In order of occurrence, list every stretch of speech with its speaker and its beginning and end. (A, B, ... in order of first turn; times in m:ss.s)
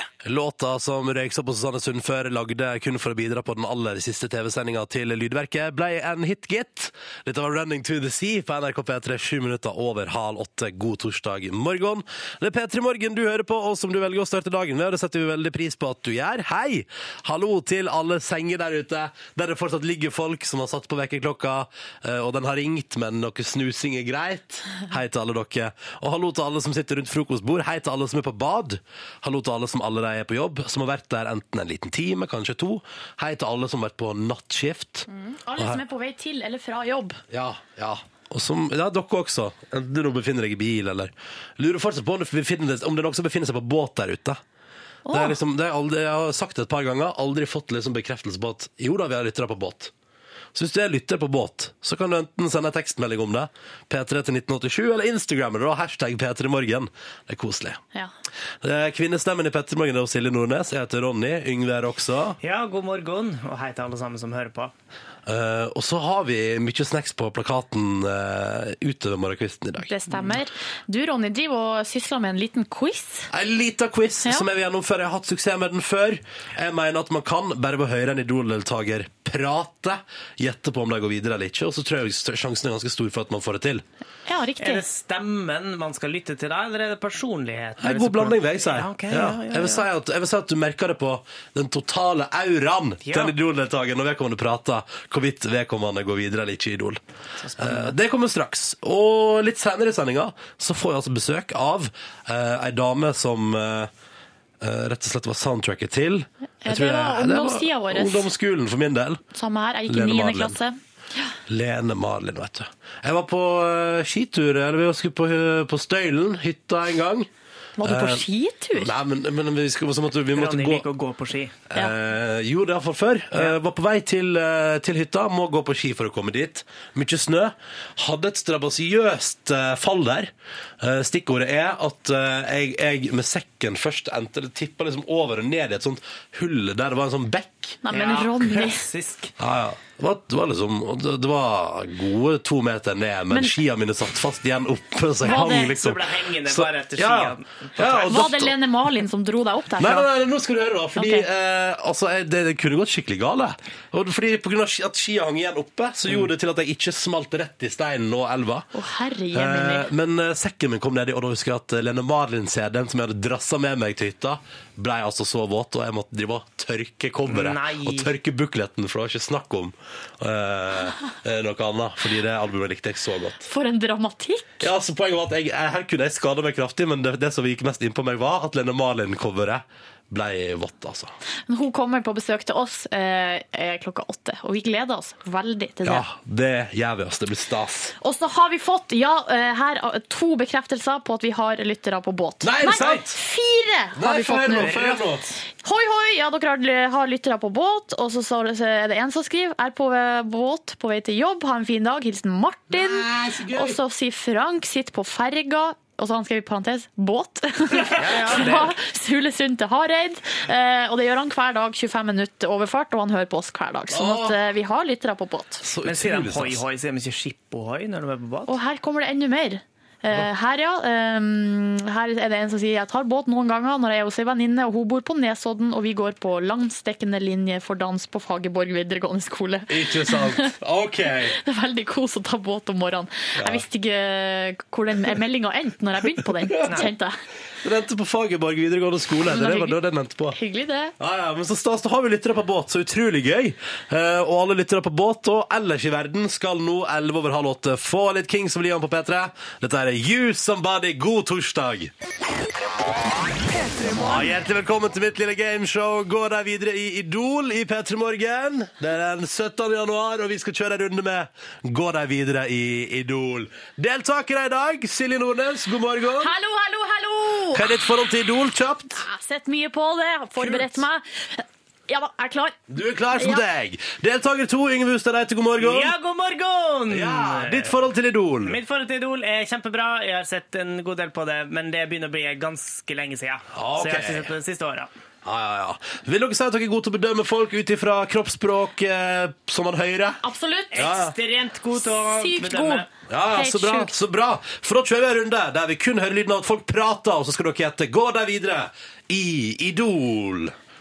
0:00.2-0:35.1 A
0:35.1-0:37.2 B
0:37.3-0:44.4 A
0:45.1-0:45.4 B
0:45.1-0:49.9 A
0:50.5-0:57.8 A
0:58.6-1:02.4 A
1:02.4-1:04.7 C
1:05.2-1:09.9 A
1:09.9-1:13.3 B
1:13.3-1:23.8 A
1:24.3-1:24.8 B
1:24.6-1:29.9 C
1:27.8-1:37.0 A
1:33.0-1:33.3 C
1:37.4-1:37.9 C
1:37.6-1:43.9 A
1:44.6-1:49.2 A
1:46.6-1:48.3 B
1:49.3-1:50.8 B
1:49.9-1:50.6 A
1:51.5-1:57.3 A
1:57.8-1:59.0 B
1:57.8-1:58.2 A
1:58.7-2:00.9 A
2:00.3-2:01.6 C
2:01.7-2:17.8 A
2:17.8-2:18.8 B
2:17.9-2:19.3 C
2:19.4-2:28.6 A
2:25.2-2:25.7 B
2:25.2-2:28.2 C
2:28.1-2:30.1 B
2:29.8-2:38.7 A
2:31.0-2:31.2 B
2:38.7-2:39.9 B
2:39.3-2:53.4 A
2:47.3-2:48.1 C
2:53.4-2:54.6 B
2:54.6-3:01.1 A
3:01.5-3:06.0 B
3:05.8-3:07.9 A
3:08.0-3:14.9 B
3:12.4-3:13.2 A
3:14.0-3:15.3 A
3:14.6-3:15.0 C
3:15.6-3:35.6 B
3:22.7-3:23.8 A
3:28.0-3:28.4 A
3:28.0-3:28.7 C
3:33.9-3:34.4 A
3:35.6-3:36.6 A
3:35.8-3:38.5 C
3:38.5-3:50.5 B
3:49.7-3:51.4 A
3:51.3-3:57.2 B
3:53.4-3:53.6 A
3:56.6-3:56.8 A
3:57.6-4:00.4 A
3:59.3-3:59.8 B
4:00.3-4:00.9 B
4:01.0-4:11.9 A
4:13.9-4:26.3 A
4:26.2-4:27.7 B
4:27.5-4:29.0 A
4:28.9-4:32.6 B
4:30.4-4:30.8 A
4:32.7-4:35.9 A
4:33.2-4:33.4 B
4:35.6-4:37.8 C
4:36.9-4:38.6 A
4:38.4-4:44.9 C
4:43.5-4:44.3 A
4:45.2-4:50.2 A
4:50.2-4:50.9 B
4:50.7-4:52.9 C
4:50.8-4:51.1 A
4:51.9-4:53.9 B
4:53.1-5:00.5 A